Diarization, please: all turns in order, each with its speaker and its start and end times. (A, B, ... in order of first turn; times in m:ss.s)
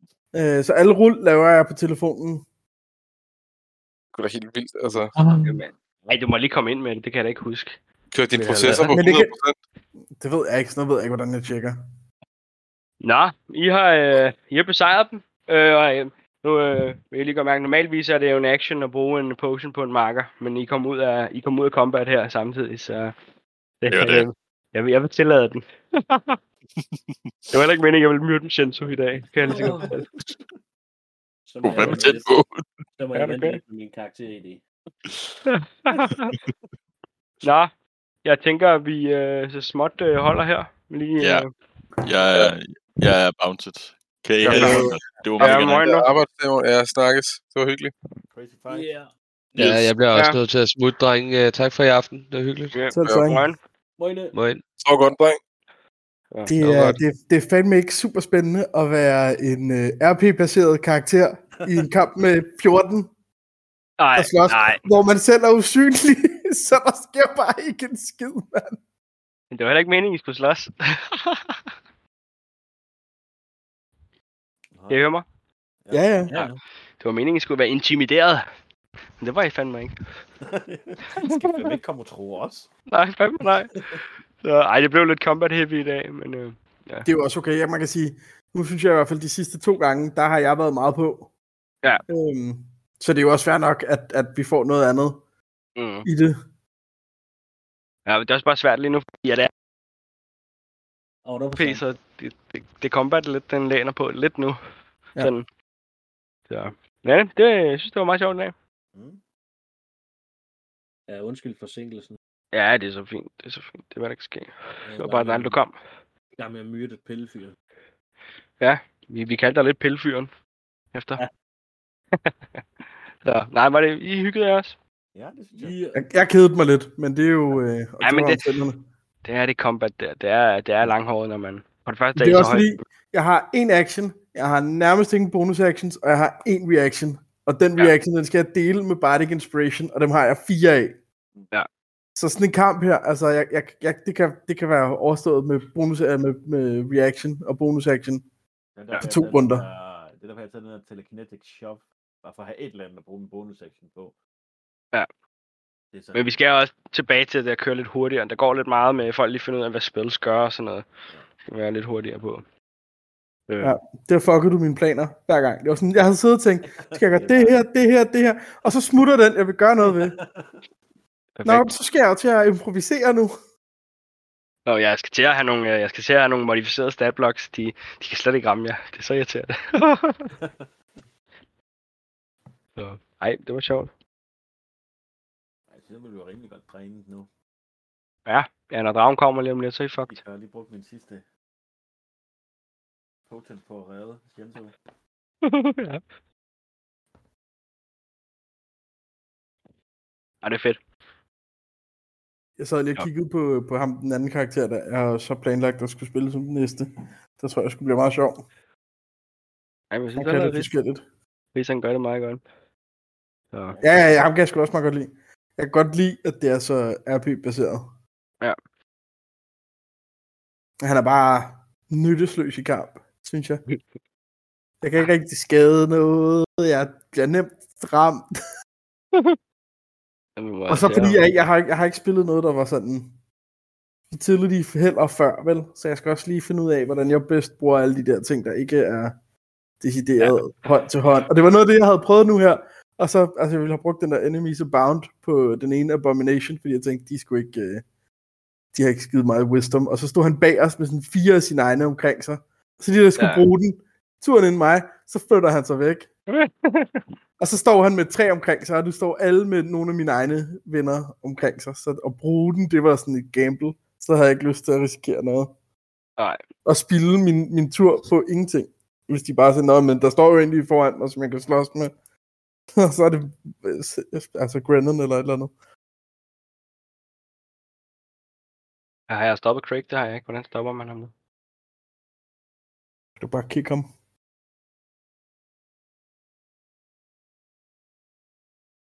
0:00.3-0:02.4 A
0:04.1-0:05.1 B
0:05.2-0:05.6 C
0:05.4-0:07.8 D
0:08.1-0:09.6 B
0:08.3-0:09.0 D
0:08.8-0:09.3 A
0:10.1-0:11.8 A
0:13.0-0:23.1 D
0:23.8-0:26.4 D
0:23.9-0:24.3 C
0:27.5-0:30.0 D
0:29.4-0:30.0 E
0:31.4-0:32.3 E
0:31.6-0:32.6 C
0:31.6-0:32.0 D
0:33.0-0:34.6 E
0:33.1-0:33.6 D
0:35.5-0:36.4 D
0:37.4-0:37.7 D
0:38.2-0:41.5 D
0:41.2-0:41.4 C
0:42.0-0:45.9 C
0:44.4-0:47.9 B
0:45.4-0:46.1 D
0:48.3-0:48.9 F
0:48.7-0:49.1 E
0:49.5-0:49.9 C
0:49.6-0:52.8 G
0:50.1-0:50.4 D
0:52.7-0:53.6 D
0:52.9-0:53.4 A
0:54.0-0:54.3 E
0:54.3-0:54.6 G
0:54.8-0:55.4 B
0:56.3-0:56.9 D
0:56.4-1:03.1 A
1:04.0-1:04.8 D
1:04.2-1:08.8 A
1:09.5-1:11.6 D
1:14.7-1:15.1 F
1:14.9-1:15.2 D
1:15.8-1:16.2 F
1:15.9-1:16.3 A
1:16.3-1:16.6 E
1:16.3-1:18.5 D
1:19.2-1:20.1 D
1:20.4-1:22.7 F
1:22.9-1:23.8 D
1:24.4-1:27.1 D
1:27.0-1:31.3 A
1:32.1-1:35.2 A
1:35.8-1:36.1 D
1:36.0-1:36.4 A
1:38.0-1:39.5 D
1:41.2-1:41.8 E
1:41.6-1:44.6 D
1:45.2-1:45.4 D
1:46.5-1:48.5 D
1:48.9-1:49.2 F
1:51.1-1:52.2 E
1:52.5-1:55.8 D
1:54.8-1:55.6 E
1:56.4-1:57.6 E
1:58.6-2:00.3 D
2:00.9-2:01.2 D
2:02.2-2:02.6 D
2:03.2-2:04.8 D
2:05.1-2:05.8 F
2:05.6-2:06.0 E
2:05.9-2:08.8 A
2:08.0-2:08.4 D
2:09.2-2:12.8 D
2:12.1-2:21.0 A
2:22.2-2:28.2 A
2:28.8-2:34.1 F
2:29.0-2:29.6 A
2:35.9-2:36.4 F
2:36.1-2:40.9 D
2:41.5-2:42.4 D
2:43.5-2:43.7 D
2:43.6-2:50.2 A
2:46.7-2:47.6 F
2:50.1-2:50.6 F
2:51.4-2:51.7 D
2:51.4-2:53.4 A
2:54.6-3:00.3 D
3:00.4-3:00.7 F
3:02.8-3:03.9 D
3:05.7-3:07.3 F
3:08.2-3:10.2 D
3:10.1-3:11.2 F
3:13.3-3:14.8 F
3:15.4-3:16.0 D
3:20.4-3:20.8 D
3:22.6-3:28.4 A
3:29.9-3:30.7 D
3:30.2-3:31.0 A
3:31.5-3:32.4 D
3:33.5-3:33.8 D
3:33.8-3:37.9 A
3:40.8-3:43.6 A
3:44.8-3:48.3 A
3:50.4-3:51.3 D
3:50.7-3:53.1 A
3:54.1-3:59.2 A
3:59.8-4:07.8 A
4:00.2-4:00.4 D
4:08.7-4:16.1 A
4:13.2-4:13.4 D
4:16.3-4:17.0 D
4:17.4-4:25.5 A
4:26.6-4:31.9 A
4:32.8-4:35.5 A
4:39.1-4:41.1 D
4:43.2-4:43.9 A